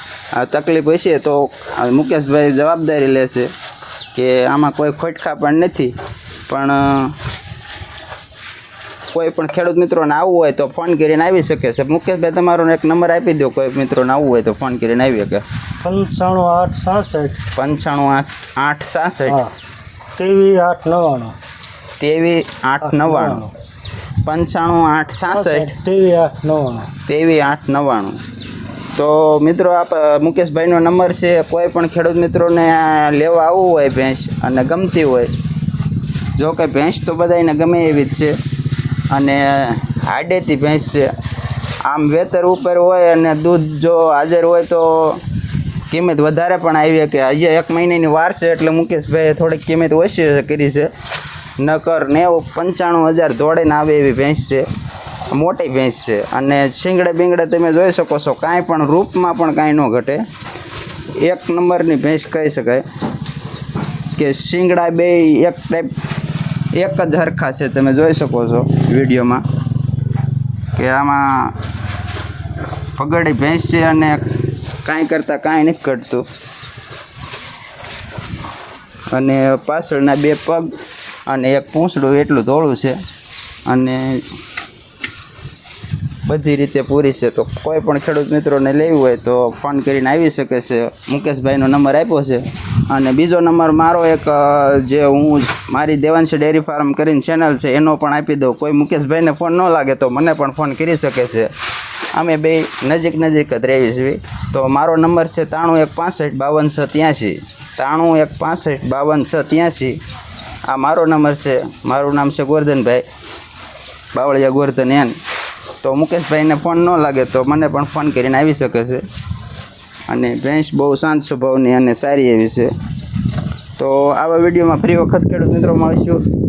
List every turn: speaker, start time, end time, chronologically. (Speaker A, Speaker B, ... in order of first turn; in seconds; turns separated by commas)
Speaker A: 0.3-3.5, Speaker A: 4.1-5.9, Speaker A: 6.5-7.2, Speaker A: 9.1-15.4, Speaker B: 15.8-17.4, Speaker A: 17.6-19.4, Speaker B: 19.3-19.5, Speaker B: 20.2-21.3, Speaker A: 22.0-23.4, Speaker B: 22.8-23.5, Speaker A: 24.2-25.7, Speaker B: 25.3-26.9, Speaker A: 27.1-28.2, Speaker A: 28.9-35.3, Speaker A: 36.4-38.4, Speaker A: 39.1-41.1, Speaker A: 41.9-45.2, Speaker A: 45.9-50.9, Speaker A: 51.6-54.7, Speaker A: 55.3-60.2, Speaker A: 61.2-62.8, Speaker A: 64.2-65.9, Speaker A: 66.7-69.4, Speaker A: 70.8-71.6, Speaker A: 73.0-74.3, Speaker A: 74.8-76.2, Speaker A: 79.1-80.7, Speaker A: 81.3-83.0, Speaker A: 83.7-84.2, Speaker A: 86.2-101.5, Speaker A: 102.1-110.0, Speaker A: 110.7-113.0, Speaker A: 114.1-115.2, Speaker A: 115.8-119.0, Speaker A: 120.1-122.7, Speaker A: 123.8-126.2